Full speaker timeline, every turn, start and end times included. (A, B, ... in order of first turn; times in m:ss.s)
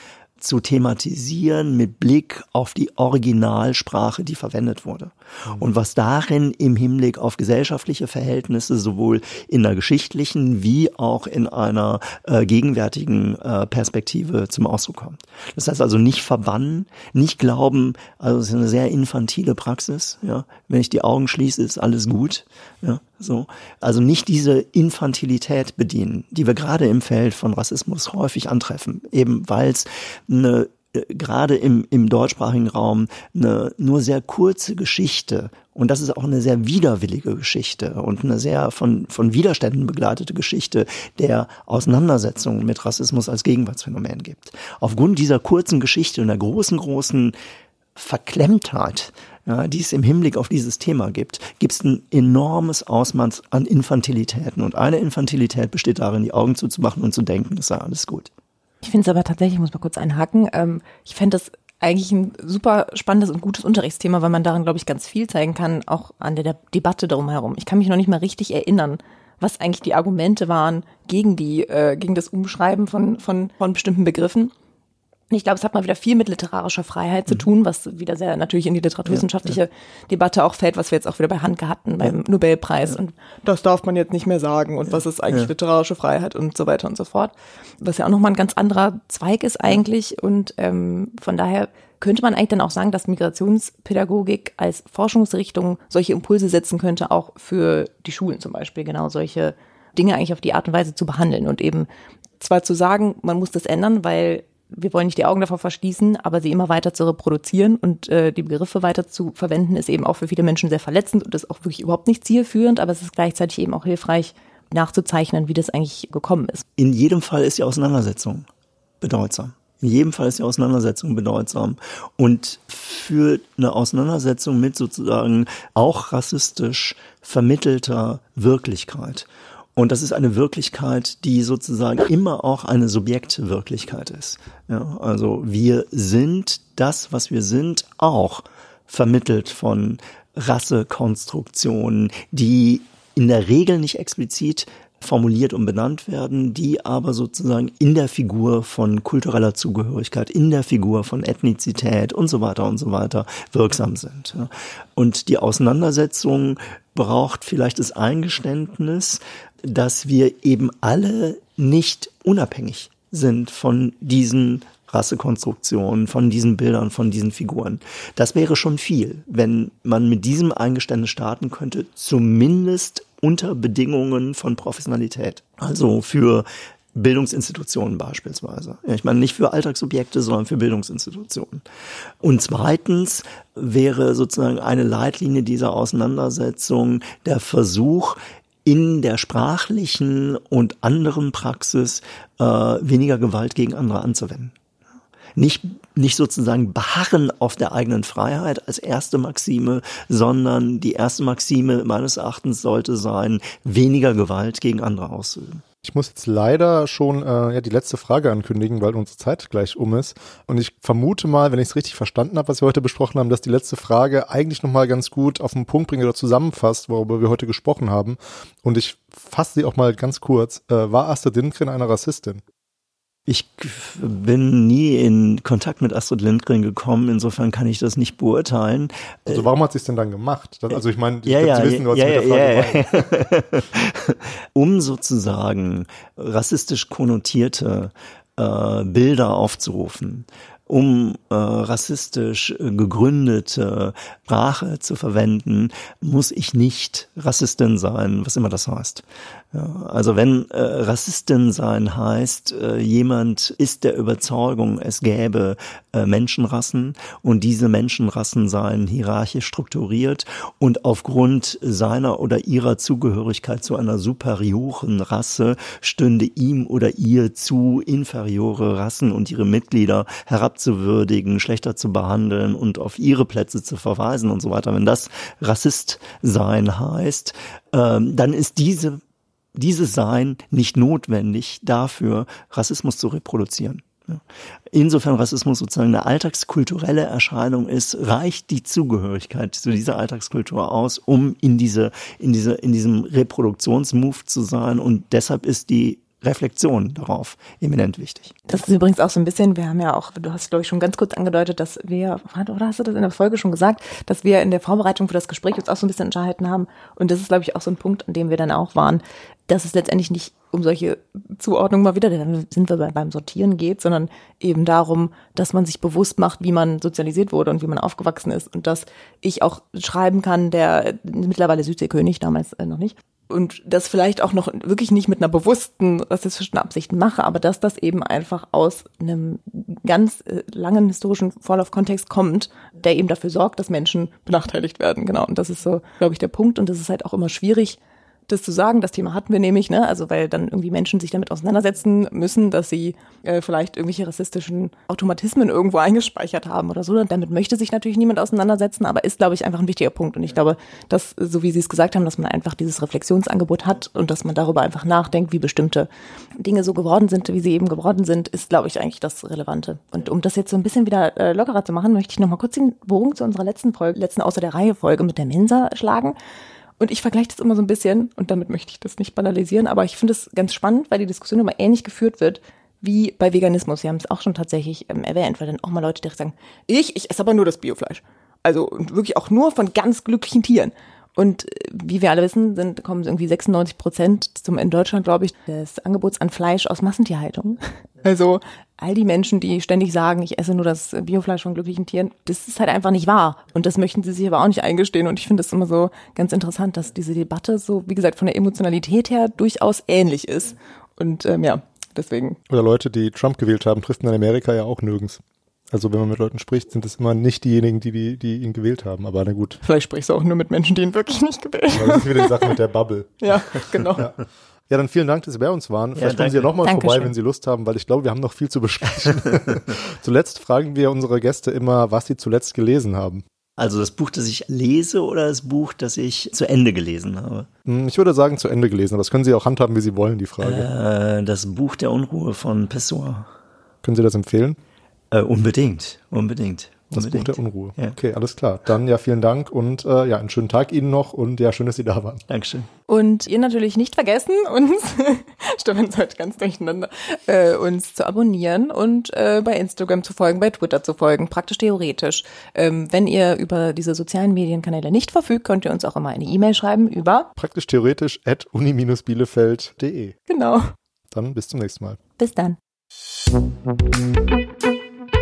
0:00.4-0:47.4 A
0:48.0-0:58.3 A
0:58.8-1:14.5 B
1:15.3-1:41.9 B
1:42.4-1:56.6 B
1:56.8-1:58.5 A
1:59.0-3:01.6 A
3:02.2-3:14.5 A
3:15.4-3:25.6 A
3:25.8-3:42.4 C
3:43.3-3:49.5 A
3:49.3-3:53.1 C
3:50.7-4:39.0 A
4:39.6-4:58.3 A
4:58.5-6:06.2 B
6:06.8-6:42.4 B
6:42.5-6:49.6 C
6:49.6-6:52.6 B
6:51.7-6:53.3 C
6:53.2-6:54.1 B
6:54.7-7:03.2 C
6:56.0-6:56.5 A
6:56.6-6:57.1 B
7:03.6-7:07.5 A
7:07.7-7:10.7 C
7:10.4-7:13.3 A
7:13.8-7:14.6 C
7:15.1-7:18.0 A
7:16.9-7:22.2 C
7:22.3-7:22.7 A
7:22.9-7:37.3 B
7:37.4-7:40.2 C
7:40.3-7:40.7 B
7:41.1-7:42.0 C
7:42.2-7:42.6 B